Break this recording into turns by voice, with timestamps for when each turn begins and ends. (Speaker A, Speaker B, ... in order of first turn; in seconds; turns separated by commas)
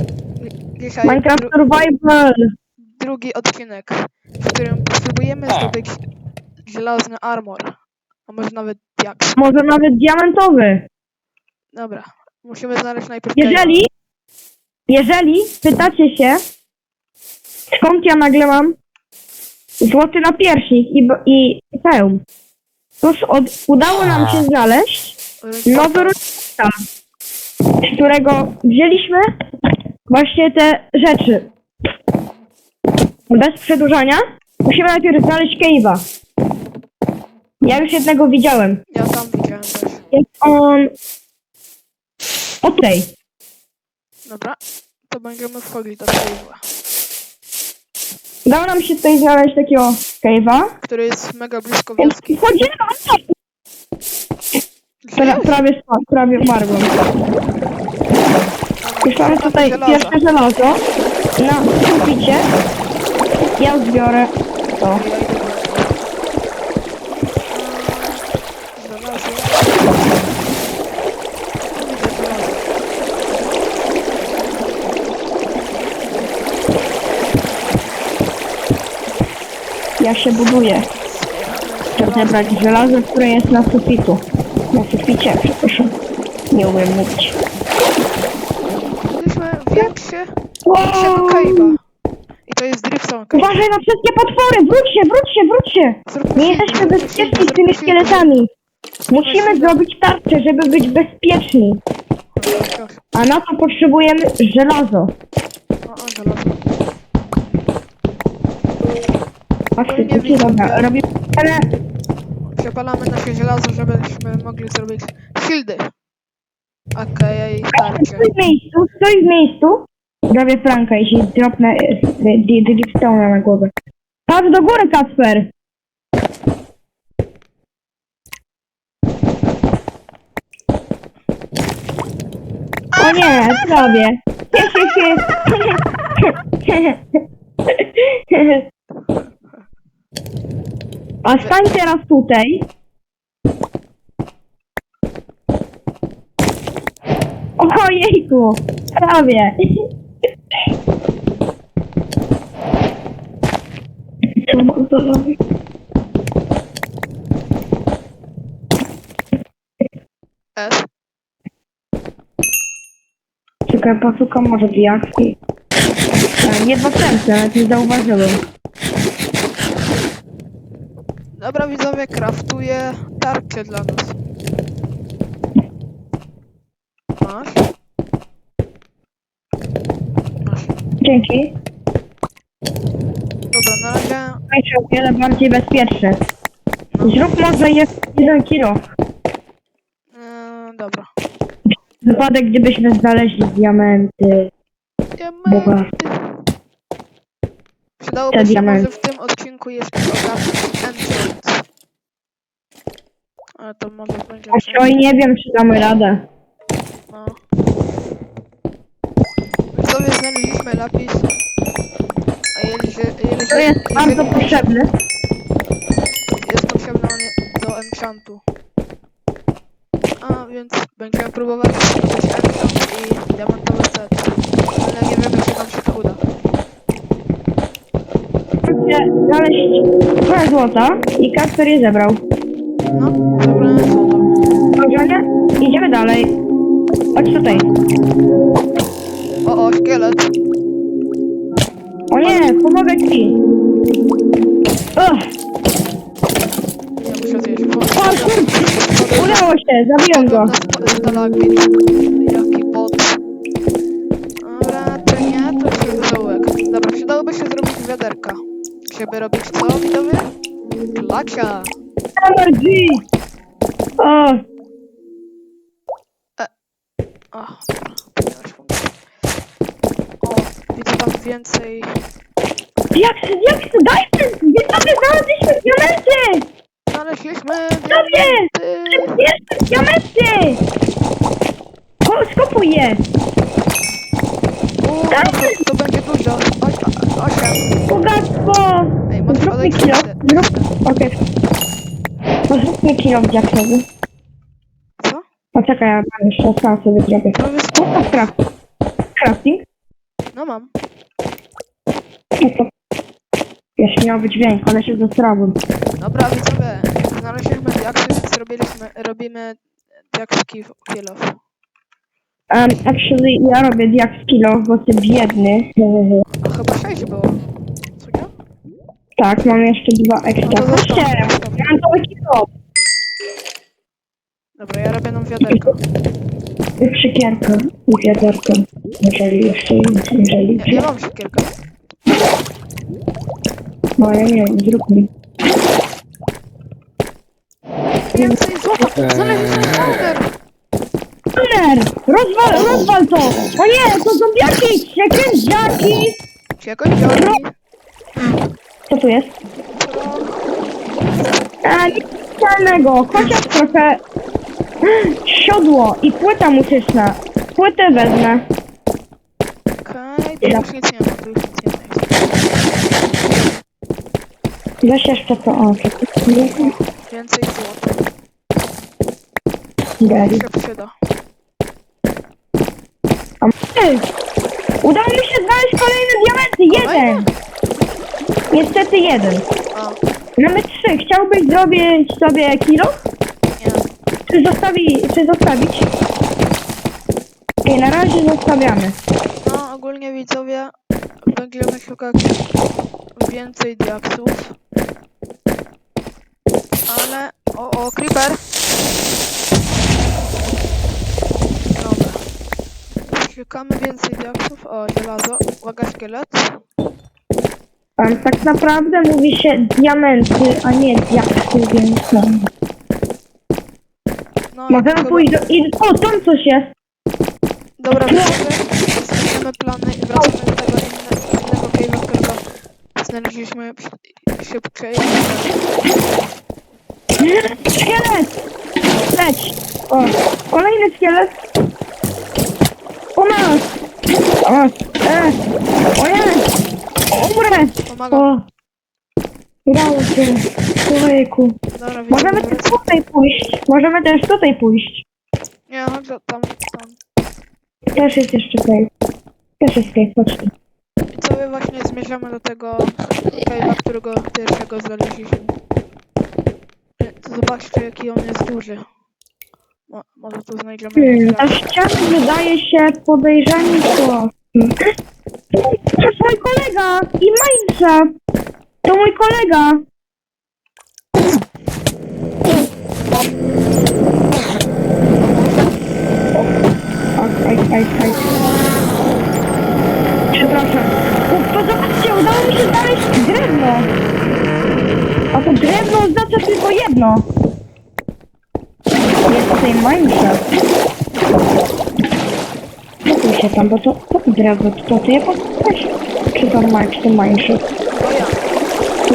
Speaker A: 0.4-1.6, Speaker B: 1.0-2.5, Speaker A: 3.0-6.0, Speaker A: 6.7-9.3, Speaker B: 9.4-10.9, Speaker A: 11.7-13.8, Speaker B: 13.4-13.9, Speaker B: 14.9-16.4, Speaker B: 17.7-18.8, Speaker B: 19.8-22.2, Speaker B: 23.0-26.7, Speaker A: 25.4-26.1, Speaker B: 27.8-29.2, Speaker B: 30.1-31.5, Speaker B: 33.3-36.0, Speaker B: 37.6-38.8, Speaker A: 38.9-40.0, Speaker B: 40.1-40.9, Speaker B: 42.6-43.1, Speaker A: 44.2-44.6, Speaker A: 45.1-46.6, Speaker B: 48.5-50.7, Speaker A: 50.8-52.5, Speaker B: 52.0-53.3, Speaker A: 55.0-55.6, Speaker B: 55.2-56.9, Speaker A: 58.8-60.2, Speaker B: 59.0-60.8, Speaker B: 61.4-62.5, Speaker B: 63.6-65.0, Speaker A: 64.9-66.0, Speaker A: 67.5-68.2, Speaker A: 68.8-70.1, Speaker A: 71.7-72.7, Speaker B: 80.0-80.9, Speaker A: 80.3-82.7, Speaker B: 82.0-85.9, Speaker B: 86.5-87.3, Speaker A: 89.1-91.8, Speaker B: 90.7-91.6, Speaker A: 92.5-93.6, Speaker B: 93.3-98.5, Speaker A: 96.1-98.3, Speaker A: 99.1-99.8, Speaker B: 99.1-101.8, Speaker A: 102.3-103.0, Speaker B: 103.1-105.1, Speaker A: 105.9-106.6, Speaker B: 109.8-111.6, Speaker A: 109.8-110.9, Speaker A: 112.5-115.9, Speaker A: 117.0-118.3, Speaker B: 117.8-123.7, Speaker B: 124.3-125.5, Speaker A: 132.9-134.0, Speaker B: 133.0-137.2, Speaker A: 134.5-135.3, Speaker B: 137.8-138.6, Speaker A: 141.2-141.7, Speaker B: 141.2-142.7, Speaker B: 147.6-149.5, Speaker B: 154.5-155.3, Speaker A: 160.6-160.8, Speaker B: 163.7-165.3, Speaker B: 166.4-168.4, Speaker A: 171.3-174.2, Speaker A: 177.2-177.6, Speaker A: 180.4-180.7, Speaker B: 181.0-181.5, Speaker A: 183.5-184.4, Speaker B: 184.5-186.2, Speaker A: 186.9-187.3, Speaker B: 187.0-188.8, Speaker A: 190.1-191.1, Speaker B: 192.0-194.5, Speaker A: 195.2-196.1, Speaker B: 195.5-195.8, Speaker A: 198.0-201.5, Speaker B: 198.3-198.9, Speaker A: 203.6-204.9, Speaker B: 204.5-206.2, Speaker A: 207.1-207.4, Speaker A: 209.7-211.3, Speaker A: 212.6-214.7, Speaker B: 213.5-214.9, Speaker A: 216.4-218.4, Speaker A: 220.2-226.2, Speaker B: 228.7-232.2, Speaker A: 232.9-234.3, Speaker B: 234.8-236.3, Speaker B: 237.1-237.7, Speaker A: 237.4-237.7, Speaker A: 239.4-240.2, Speaker B: 242.1-243.3, Speaker A: 242.2-242.5, Speaker B: 244.9-245.2, Speaker A: 247.0-249.5, Speaker B: 247.9-248.5, Speaker B: 249.2-250.5, Speaker A: 250.1-253.1, Speaker A: 254.4-260.3, Speaker A: 260.9-261.7, Speaker B: 262.2-263.0, Speaker B: 264.0-264.4, Speaker A: 267.3-268.9, Speaker A: 270.2-271.9, Speaker B: 272.9-276.5, Speaker A: 276.9-279.2, Speaker B: 277.9-280.6, Speaker B: 282.0-283.0, Speaker A: 284.8-287.6, Speaker B: 285.1-285.5, Speaker B: 287.9-291.1, Speaker A: 289.1-290.7, Speaker B: 292.5-293.8, Speaker A: 295.0-295.2, Speaker B: 295.5-298.3, Speaker A: 297.3-298.3, Speaker B: 299.2-299.6, Speaker A: 300.3-300.7, Speaker B: 302.4-302.7, Speaker B: 303.8-305.6, Speaker A: 306.0-311.4, Speaker B: 312.5-316.2, Speaker A: 316.4-317.4, Speaker A: 318.0-318.3, Speaker B: 319.2-322.5, Speaker A: 320.4-321.7, Speaker A: 324.6-325.8, Speaker B: 326.8-330.8, Speaker A: 330.6-331.5, Speaker B: 334.0-335.1, Speaker A: 338.1-340.3, Speaker B: 341.4-346.2, Speaker A: 346.6-347.5, Speaker B: 348.9-349.3, Speaker A: 349.8-350.3, Speaker A: 351.1-351.4, Speaker B: 351.6-354.0, Speaker B: 354.8-358.4, Speaker A: 359.8-362.4, Speaker B: 364.8-366.7, Speaker A: 366.6-368.0, Speaker B: 370.0-370.4, Speaker A: 370.1-370.9, Speaker B: 373.4-374.1, Speaker B: 374.8-377.3, Speaker A: 376.7-377.3, Speaker B: 378.5-379.4, Speaker A: 379.7-380.0, Speaker B: 380.4-382.9, Speaker A: 383.6-383.8, Speaker B: 384.3-385.9, Speaker B: 387.6-389.0, Speaker A: 389.4-390.7, Speaker A: 391.2-392.4, Speaker A: 393.1-394.6, Speaker A: 396.9-398.4, Speaker A: 401.8-402.2, Speaker A: 403.1-406.4, Speaker B: 408.0-412.5, Speaker A: 414.5-415.4, Speaker B: 414.7-416.7, Speaker A: 417.8-422.4, Speaker B: 418.1-418.4, Speaker A: 423.0-425.6, Speaker B: 427.2-428.4, Speaker B: 429.0-431.4, Speaker B: 433.1-433.7, Speaker B: 434.4-435.4, Speaker B: 436.0-436.4, Speaker B: 437.1-438.4, Speaker A: 437.9-438.3, Speaker B: 439.7-441.6, Speaker A: 441.8-442.8, Speaker B: 442.1-445.0, Speaker A: 445.7-447.0, Speaker B: 447.9-448.9, Speaker B: 449.6-450.5, Speaker A: 451.1-455.5, Speaker A: 457.0-458.8, Speaker A: 459.9-461.6, Speaker B: 461.0-464.9, Speaker B: 465.5-468.1, Speaker B: 468.8-469.8, Speaker B: 477.2-478.4, Speaker B: 480.3-483.9, Speaker B: 485.3-487.3, Speaker B: 489.3-490.4, Speaker B: 493.1-497.6, Speaker A: 497.9-498.5